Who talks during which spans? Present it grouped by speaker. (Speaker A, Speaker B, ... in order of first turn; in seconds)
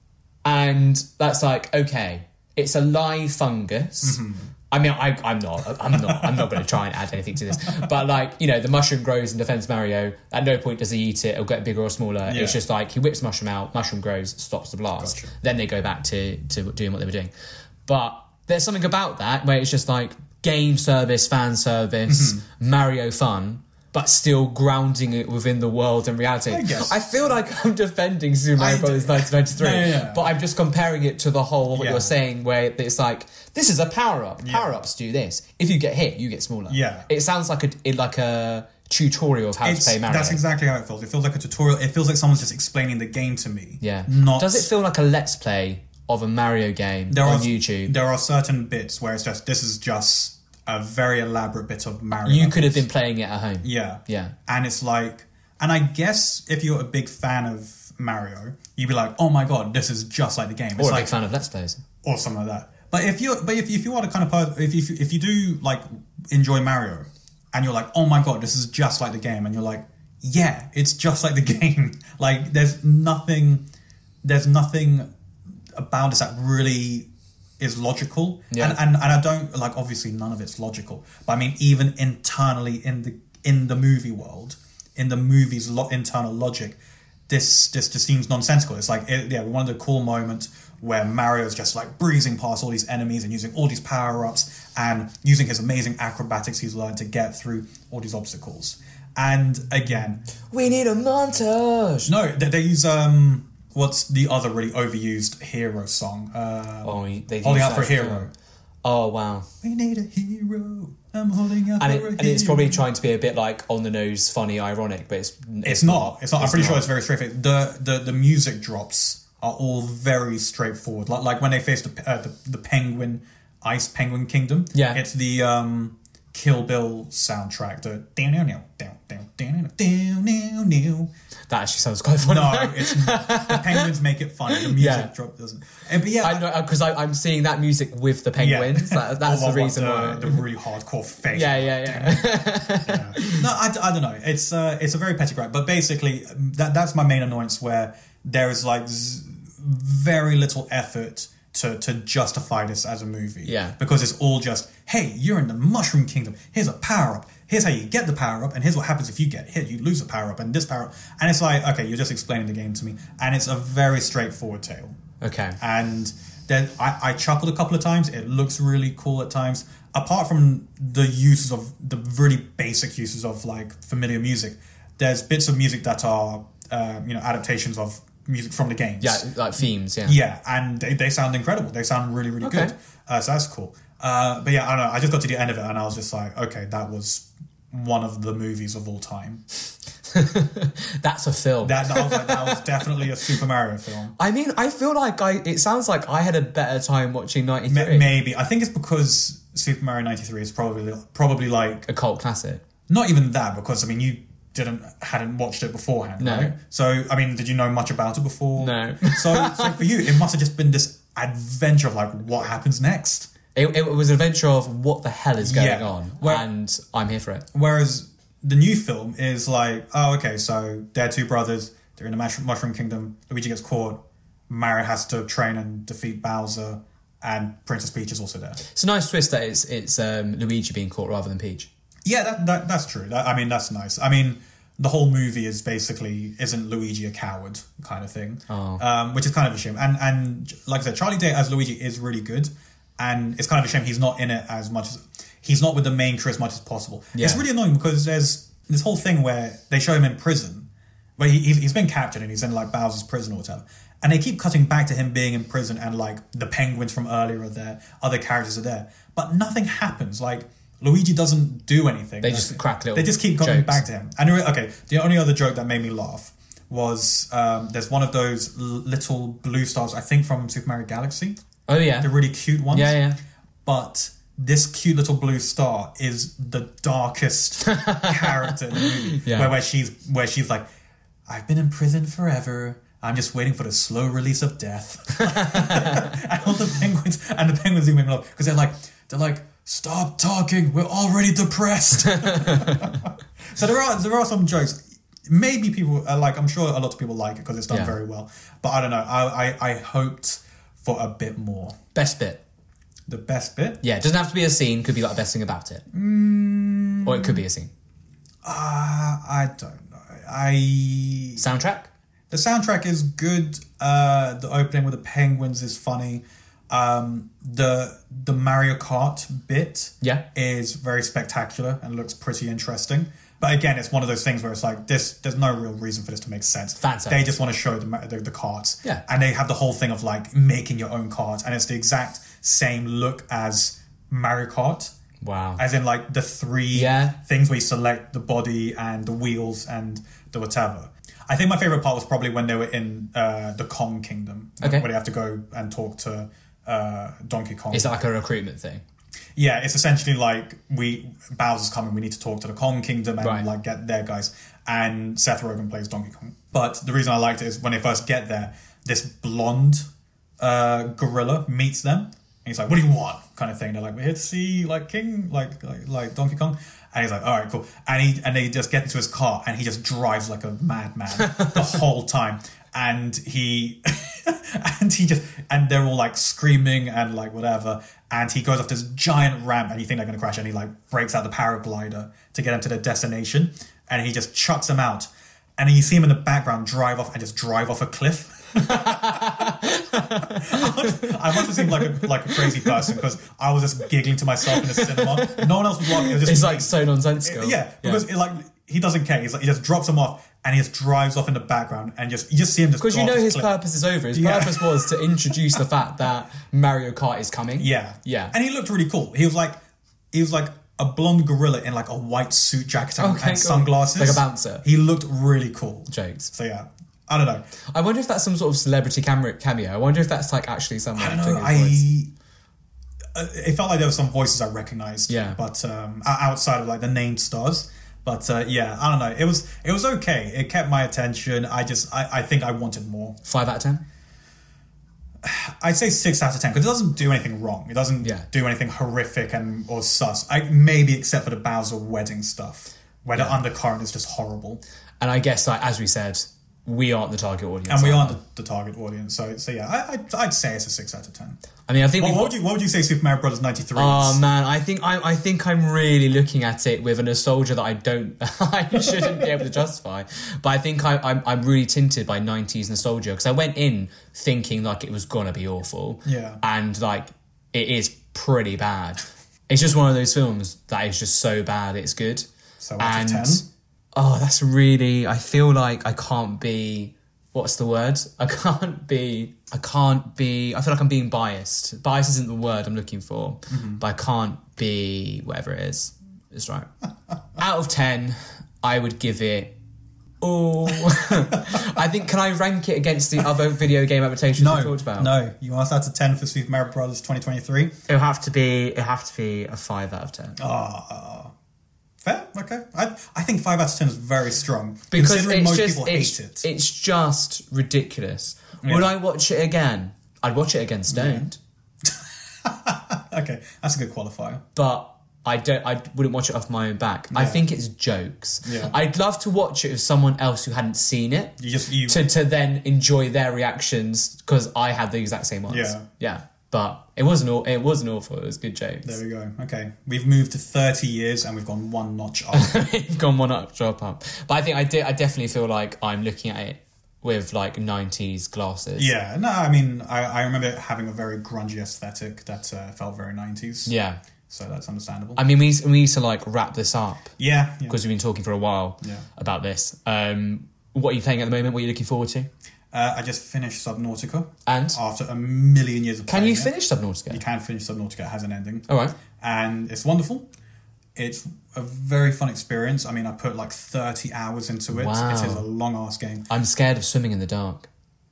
Speaker A: 0.4-17.3, 17.9-40.4, 43.8-47.9, 52.2-54.3, 60.8-61.8, 78.5-78.8, 100.5-102.1, 106.8-108.3, 108.8-109.5, 111.8-116.9, 124.7-125.0, 131.5-133.9, 134.5-135.1, 136.2-140.4, 141.3-143.4, 153.4-153.8, 165.2-165.6, 179.0-180.2, 182.4-182.7, 190.1-192.7, 194.2-198.1, 201.9-202.6, 206.2-206.5, 208.6-209.9, 213.5-217.4, 228.6-231.7, 238.5-238.8, 247.1-247.4, 262.2-263.8, 271.7-272.1, 272.7-273.2, 277.6-279.5, 285.3-286.1, 292.0-293.0, 297.7-297.9, 301.9-302.4, 303.8-305.8, 307.0-307.7, 311.4-311.9, 326.8-327.2, 335.2-335.6, 336.7-337.1, 344.6-344.9, 347.7-348.8, 353.2-353.4, 371.2-371.6, 388.6-393.0, 394.5-398.0, 402.8-408.3, 413.0-414.6, 415.9-416.3, 417.7-421.9, 425.1-425.4, 433.2-433.8, 438.0-438.3, 445.0-448.2, 451.7-452.3, 453.8-472.3, 472.8-486.7, 487.4-489.5, 490.2-495.1, 497.9-500.4, 504.9-511.4, 514.5-521.3, 521.9-529.0, 532.3-538.9, 543.6-544.0, 545.1-547.1, 547.7-552.3, 554.5-554.8, 556.1-557.2, 558.7-559.0, 564.7-565.4, 566.3-567.7
Speaker B: 4.0-4.5, 5.9-6.6, 12.2-12.6, 15.0-15.3, 22.1-22.4, 26.5-27.3, 28.6-30.3, 31.7-32.1, 34.4-34.8, 36.7-37.1, 39.6-44.7, 47.1-52.8, 53.6-61.1, 62.0-73.6, 74.2-75.1, 75.7-100.2, 102.0-108.3, 109.6-112.8, 115.6-131.1, 132.2-136.4, 138.4-165.0, 165.6-179.2, 180.0-189.4, 191.6-194.1, 197.7-201.8, 202.9-213.3, 215.4-216.5, 217.5-228.6, 232.0-250.7, 251.2-271.4, 272.0-273.0, 273.6-280.6, 281.3-301.8, 303.1-303.8, 305.9-307.4, 308.4-311.4, 312.3-334.9, 335.6-347.9, 349.4-359.9, 360.4-403.5, 404.1-405.6, 407.6-409.6, 410.1-417.5, 420.9-422.1, 423.1-433.2, 435.2-444.6, 447.7-451.4, 452.0-454.2, 466.0-466.4, 472.6-473.4, 483.5-483.8, 491.4-491.8, 494.4-497.7, 500.4-501.3, 502.0-506.4, 508.6-508.9, 510.9-511.3, 511.8-514.4, 517.1-517.4, 518.4-518.7, 521.4-522.1, 525.5-525.9, 528.8-532.5, 538.8-543.7, 544.3-545.2, 547.2-547.8, 552.7-556.5, 557.1-560.3, 561.0-566.2